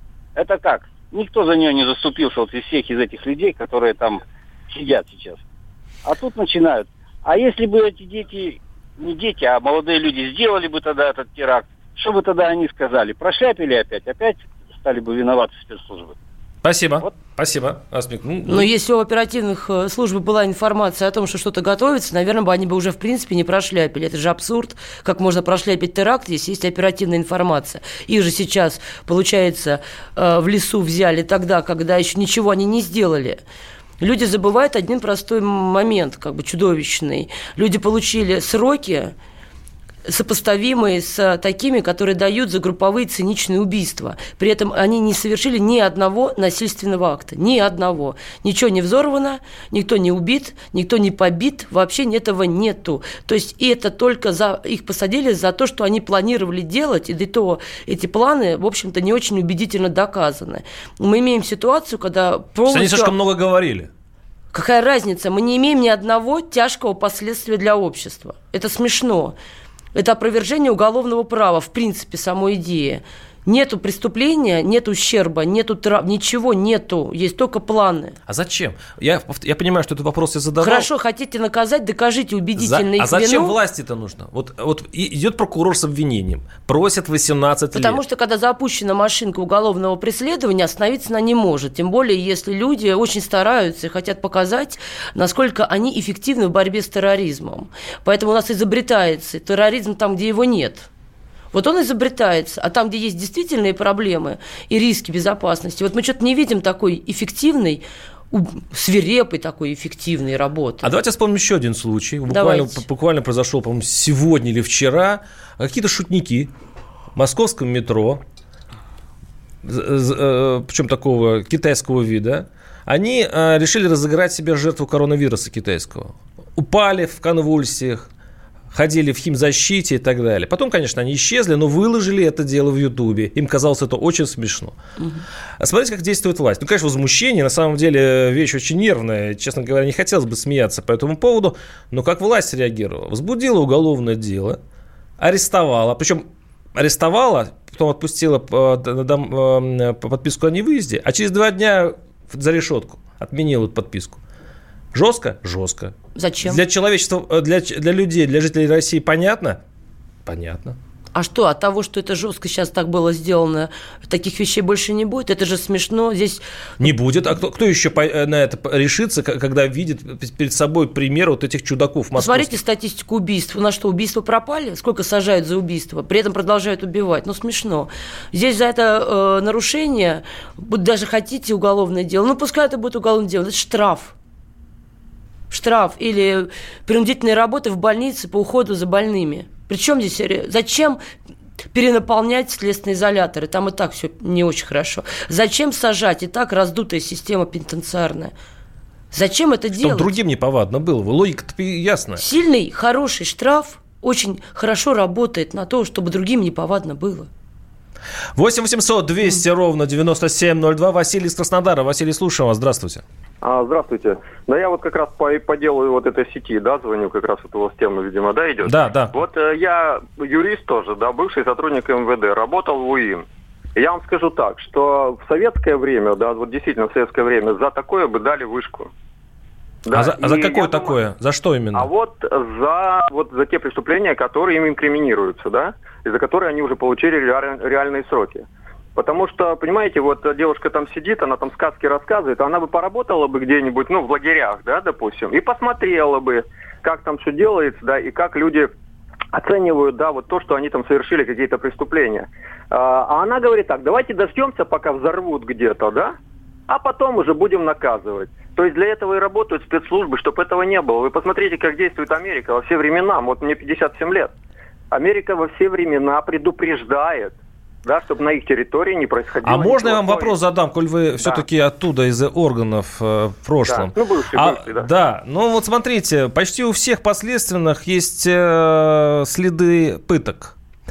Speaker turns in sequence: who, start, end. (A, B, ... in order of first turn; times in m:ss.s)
0:00.4-0:05.4 A
0:06.0-0:16.2 A
0:16.6-0:18.7 B
0:18.5-0:33.4 C
0:34.0-0:39.1 C
0:40.1-1:03.1 C
1:02.7-1:03.9 B
1:04.5-1:09.4 C
1:09.9-1:18.2 C
1:18.3-1:20.9 B
1:20.6-1:23.6 C
1:22.6-1:28.0 B
1:27.7-1:40.9 C
1:41.5-1:50.9 C
1:50.8-1:56.5 B
1:52.3-1:52.8 C
1:57.2-1:58.2 B
1:59.6-2:08.1 B
2:08.7-2:14.8 B
2:15.6-2:24.6 B
2:25.2-2:34.2 B
2:34.9-2:39.6 B
2:36.2-2:36.6 C
2:40.2-2:40.8 B
2:41.1-2:46.4 C
2:46.8-2:52.6 B
2:52.2-3:04.1 C
3:05.5-3:11.0 C
3:11.7-3:18.3 C
3:19.1-3:20.1 C
3:19.8-3:22.2 B
3:22.2-3:27.3 C
3:28.4-3:33.0 B
3:33.4-3:43.2 D
3:38.6-3:39.1 B
3:43.8-3:48.9 D
3:49.9-3:51.0 D
3:49.9-3:51.9 B
3:51.7-3:58.4 D
3:59.0-4:08.7 D
4:09.3-4:16.1 D
4:16.7-4:24.3 D
4:24.9-4:30.4 D
4:29.4-4:40.5 B
4:31.2-4:31.4 D
4:33.7-4:34.9 D